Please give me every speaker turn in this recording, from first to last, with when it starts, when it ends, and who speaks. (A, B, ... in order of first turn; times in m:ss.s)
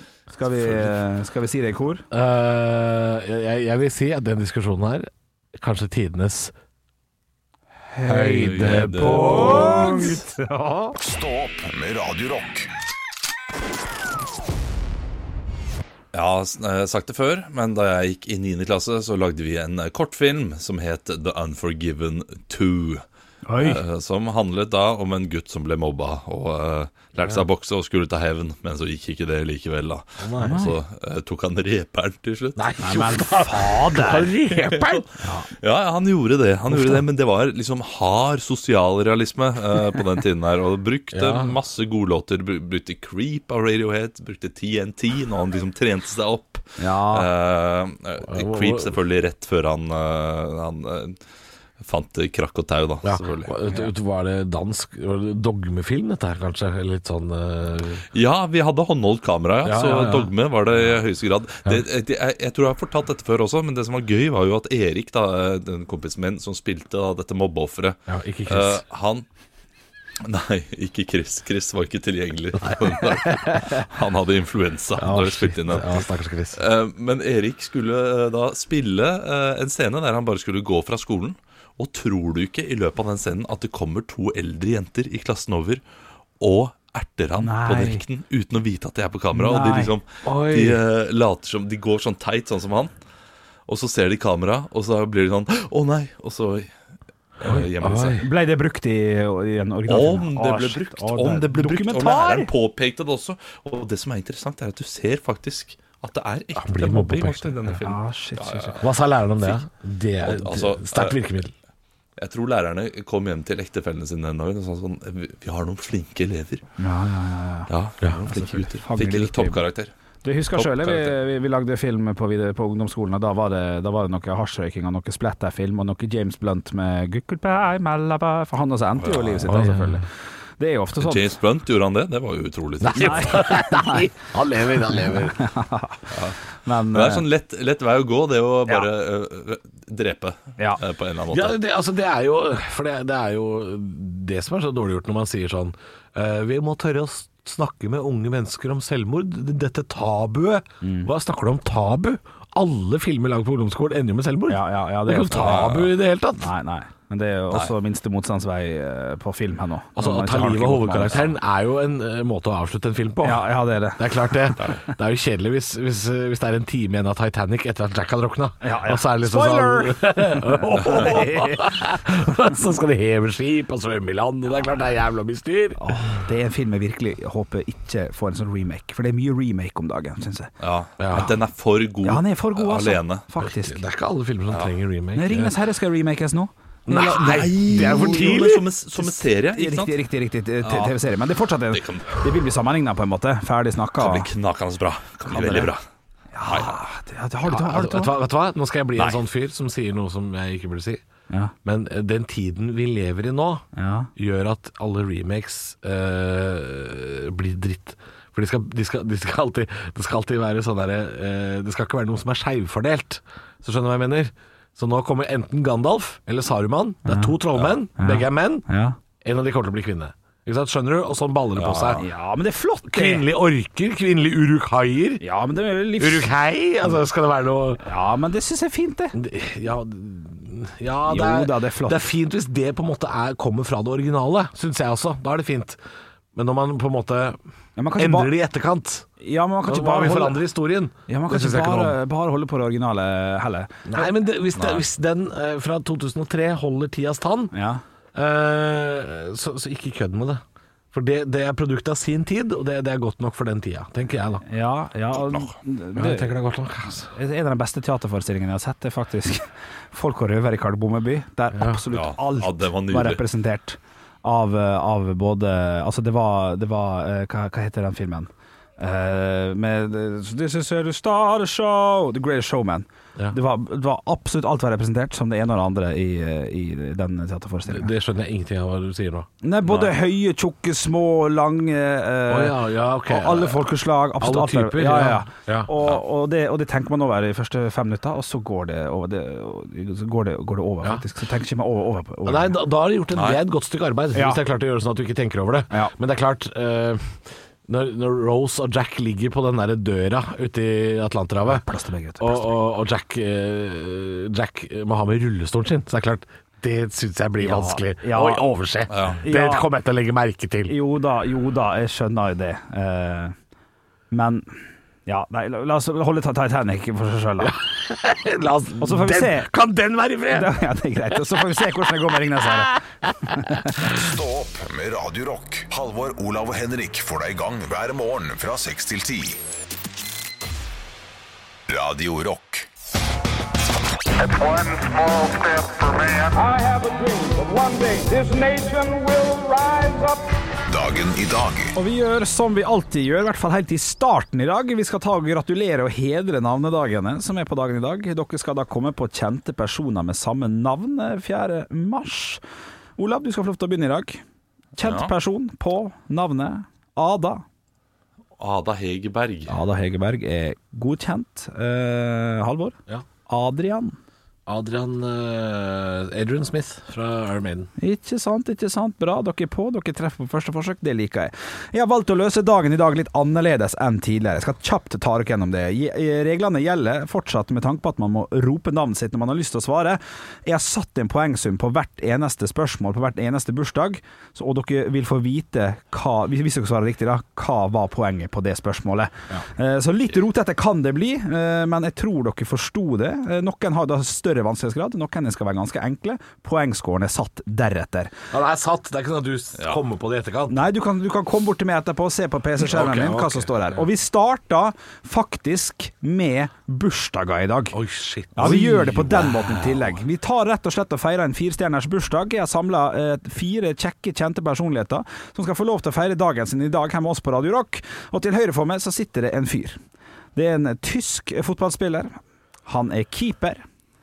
0:00.3-0:02.0 A
0:02.1-0:06.5 B
0:08.0-0:11.0 A
0:08.0-0:10.0 B
0:08.1-0:10.1 C
0:11.0-0:12.7 D
0:16.1-0:23.0 C
0:23.5-0:23.8 A
0:23.6-0:32.7 C
0:30.2-0:30.8 B
0:30.4-0:30.7 A
0:32.6-0:35.1 B
0:32.8-0:34.3 A
0:34.5-0:35.1 C
0:35.2-0:35.5 A
0:35.6-0:51.2 C
0:36.7-0:37.0 B
0:41.1-0:41.6 B
0:46.8-0:47.3 A
0:48.2-0:49.0 B
0:51.8-0:53.7 C
0:53.0-0:58.0 B
0:58.1-1:09.3 C
0:59.6-1:01.0 B
1:08.1-1:08.8 B
1:10.2-1:25.8 C
1:12.7-1:13.8 B
1:15.0-1:16.6 B
1:26.4-1:32.9 C
1:27.4-1:28.0 A
1:29.3-1:29.9 A
1:30.2-1:30.8 B
1:33.7-1:36.7 C
1:37.4-1:38.2 C
1:37.4-1:38.3 B
1:38.2-1:42.5 A
1:39.9-1:49.6 C
1:46.6-1:47.7 B
1:47.8-1:48.7 A
1:48.8-1:51.5 B
1:50.2-1:51.2 C
1:52.2-1:56.7 C
1:56.8-1:57.7 A
1:57.7-1:59.9 C
1:58.3-1:59.6 A
2:00.2-2:10.1 A
2:00.6-2:01.2 C
2:09.0-2:09.6 C
2:09.5-2:10.0 B
2:10.6-2:11.3 A
2:11.0-2:13.4 C
2:12.8-2:15.4 B
2:13.0-2:14.0 A
2:15.4-2:16.1 A
2:16.1-2:16.4 C
2:16.6-2:17.3 A
2:16.9-2:21.6 C
2:21.3-2:36.5 B
2:30.8-2:31.1 A
2:34.5-2:35.7 A
2:35.3-2:35.9 C
2:36.4-2:41.3 A
2:40.0-2:55.9 B
2:43.2-2:44.4 A
2:48.6-2:51.8 A
2:55.8-3:00.5 A
3:00.6-3:03.2 C
3:01.0-3:01.3 B
3:02.0-3:03.8 A
3:03.4-3:05.5 B
3:05.2-3:06.5 A
3:06.9-3:08.7 B
3:06.9-3:10.0 C
3:08.0-3:08.3 A
3:09.0-3:14.3 A
3:10.6-3:10.9 C
3:11.7-3:12.3 C
3:14.0-3:15.8 C
3:15.3-3:15.7 A
3:16.3-3:18.2 A
3:16.5-3:16.8 C
3:17.5-3:21.0 B
3:19.0-3:19.2 C
3:21.6-3:38.6 B
3:23.8-3:24.1 A
3:37.1-3:37.4 A
3:38.0-3:39.0 A
3:39.2-3:42.1 B
3:41.6-3:42.0 C
3:42.0-3:43.3 A
3:42.8-3:45.2 B
3:45.2-3:46.3 A
3:46.0-3:47.8 B
3:47.8-3:49.2 A
3:49.1-3:55.8 B
3:51.1-3:52.1 A
3:56.3-3:57.4 B
3:57.8-3:58.3 A
3:58.0-3:59.1 B
3:59.2-4:00.4 A
3:59.7-4:02.0 B
4:01.1-4:04.1 A
4:03.9-4:07.5 B
4:07.5-4:07.8 A
4:08.2-4:14.4 B
4:14.5-4:16.4 A
4:15.2-4:15.5 C
4:16.0-4:17.1 B
4:17.1-4:37.9 A
4:21.5-4:21.8 B
4:21.9-4:23.2 C
4:37.7-4:39.9 B
4:39.4-4:52.6 A
4:42.3-4:45.7 B
4:52.2-5:01.6 B
4:53.1-4:53.4 C
4:54.2-4:54.4 A
5:01.5-5:02.5 A
5:02.2-5:10.8 B
5:07.4-5:08.4 A
5:08.9-5:09.2 C
5:09.2-5:09.7 A
5:10.7-5:13.4 A
5:14.1-5:17.6 A
5:17.4-5:20.6 B
5:18.8-5:19.5 A
5:20.3-5:23.9 A
5:22.4-5:22.8 B
5:24.0-5:29.4 D
5:31.7-5:32.7 D
5:34.2-5:40.2 E
5:40.7-5:41.7 D
5:41.8-5:52.4 A
5:53.0-5:54.2 A
5:54.8-5:57.4 A
5:54.8-5:55.1 C
5:58.4-5:59.5 C
5:59.5-6:04.0 A
6:04.5-6:07.7 B
6:07.8-6:38.1 A
6:38.3-6:40.6 B
6:40.5-6:47.8 A
6:42.6-6:43.8 B
6:47.7-6:49.8 B
6:48.4-6:59.8 A
7:00.4-7:03.6 A